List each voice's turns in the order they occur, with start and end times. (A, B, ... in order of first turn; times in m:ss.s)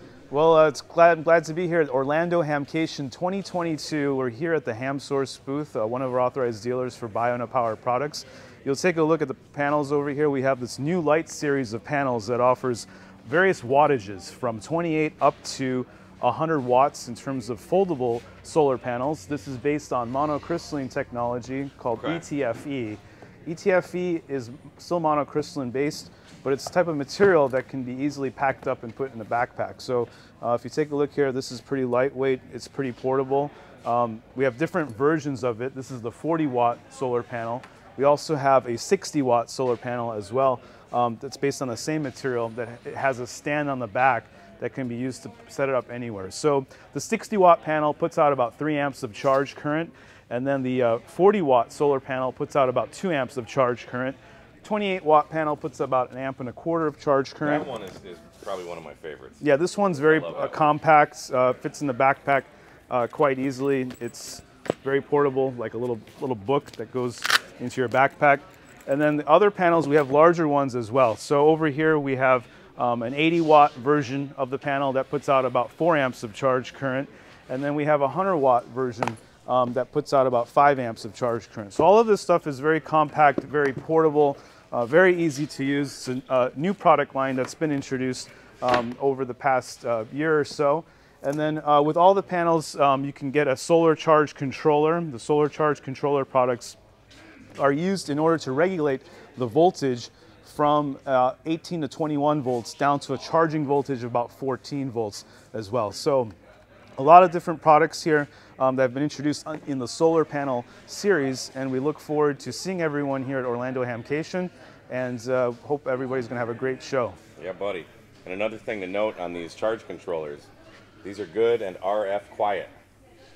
0:00.3-0:57.7 A
0:22.0-0:22.2 B
0:57.4-0:59.4 B
0:59.4-1:36.8 A
1:00.0-1:00.6 B
1:37.6-1:46.3 A
1:47.0-1:57.2 A
1:57.4-2:00.5 B
2:01.0-2:02.7 B